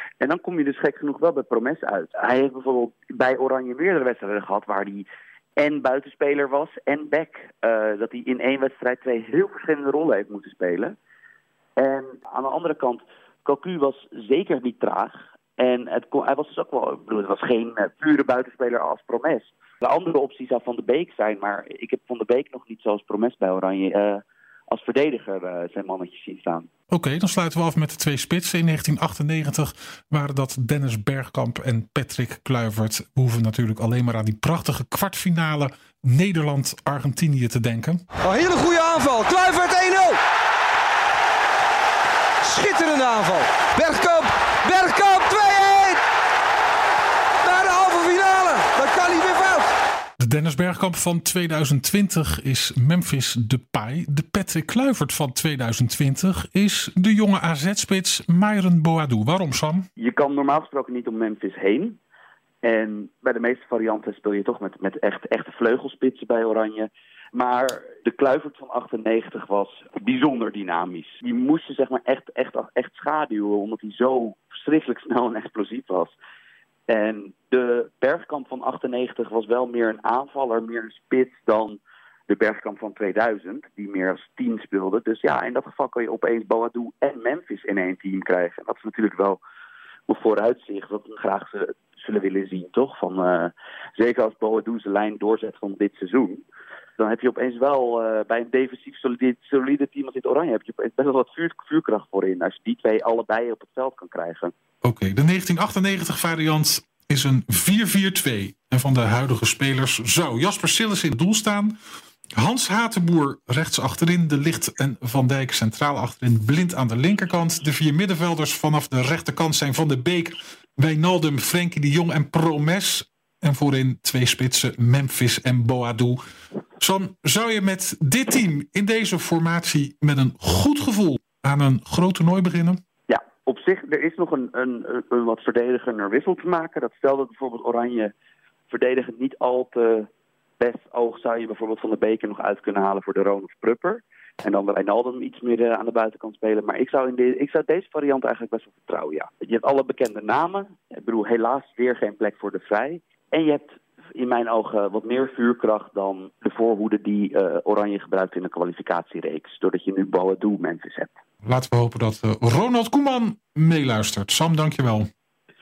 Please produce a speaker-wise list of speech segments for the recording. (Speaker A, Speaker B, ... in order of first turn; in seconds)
Speaker A: 0.2-10.9, 11.8-26.7, 60.0-62.0, 62.6-76.1, 76.9-89.4, 90.1-96.4, 97.0-104.5, 133.1-138.1, 138.7-140.1, 140.6-161.1
Speaker B: 26.9-38.0, 50.2-59.9, 104.8-111.8, 112.4-126.2, 126.8-132.8, 161.4-165.1
Speaker C: 38.2-40.2, 42.4-46.0, 47.4-49.7